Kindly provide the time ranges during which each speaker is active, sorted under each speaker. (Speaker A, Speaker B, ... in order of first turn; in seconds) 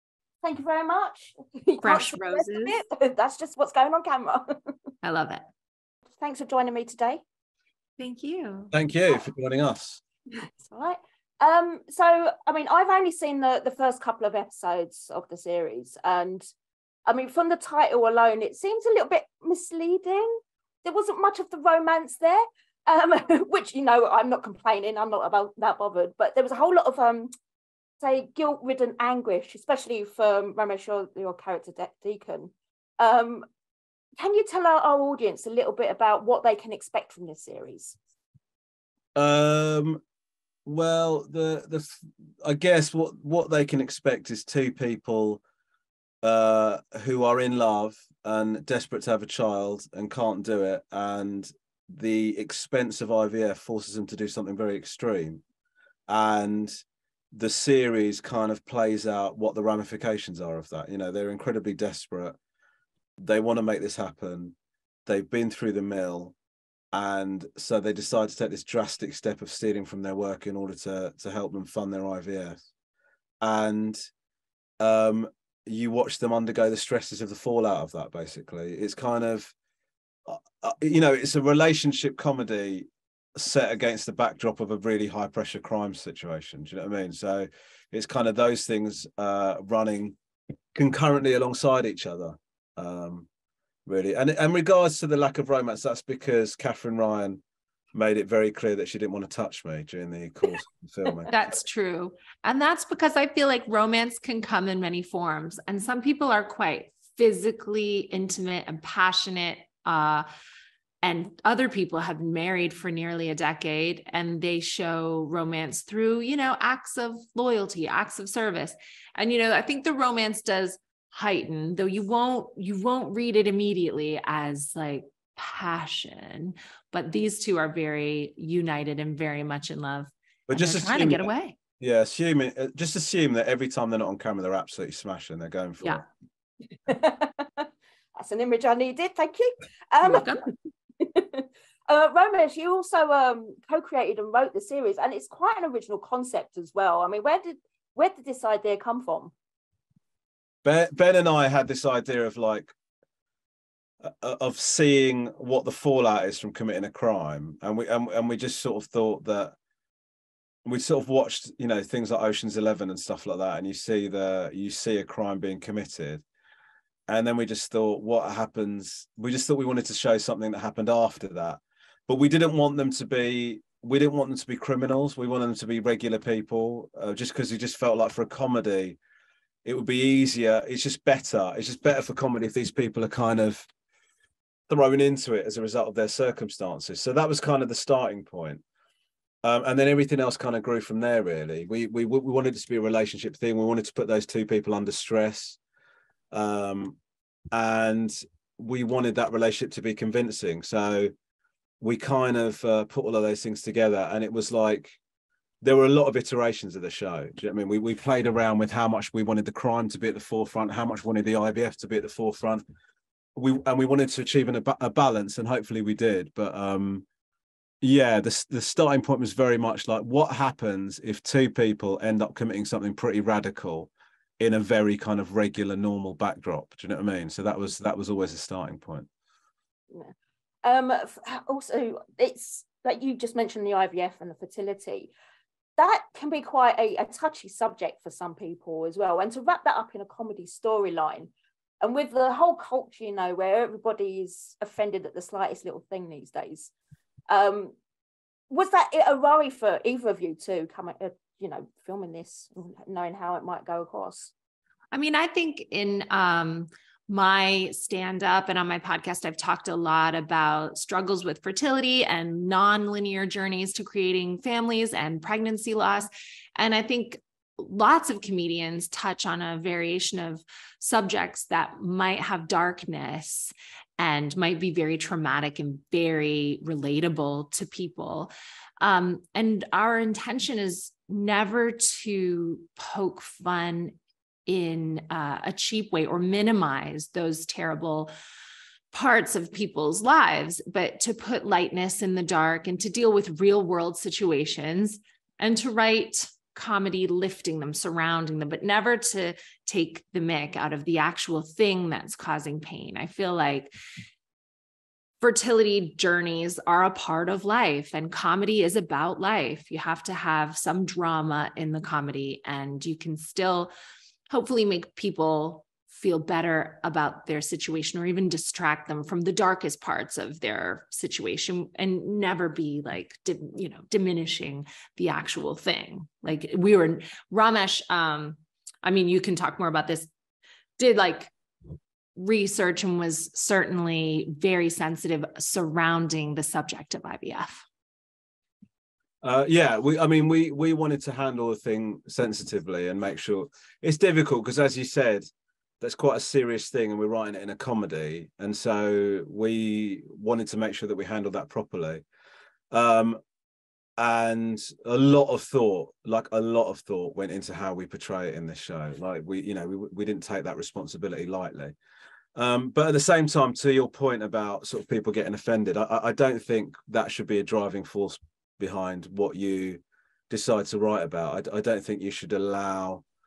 Speaker A: 0.4-4.7, 6.2-7.2, 10.3-16.5, 17.1-20.3, 20.8-27.3, 28.0-33.5, 34.2-38.0, 136.9-140.3, 141.0-149.3, 230.6-235.1, 235.8-246.7, 247.3-247.8, 248.5-254.3
Speaker B: 1.8-2.8, 5.0-5.4, 8.0-8.7, 101.3-110.2, 111.0-131.6, 140.0-140.5, 254.9-283.9, 284.5-288.1, 288.9-303.7, 305.2-313.7, 314.3-330.1, 330.8-331.3, 332.2-337.6
Speaker C: 8.7-10.0, 39.2-40.0, 40.7-45.4, 46.2-55.4, 56.1-56.7, 57.3-62.4, 63.2-66.3, 66.9-72.6, 73.4-74.0, 74.8-79.5, 80.3-90.2, 90.8-93.3, 93.9-97.4, 97.9-101.3, 130.5-131.3, 131.8-136.1, 150.6-152.7, 154.0-159.6, 160.7-166.2, 167.1-179.0, 179.7-183.7, 184.7-188.6, 189.4-195.6, 196.3-197.0, 197.5-201.1, 201.8-205.0, 205.6-212.6, 213.4-217.1, 217.8-229.1, 339.2-345.3, 345.8-352.0, 352.7-353.2, 354.0-361.8, 362.4-373.0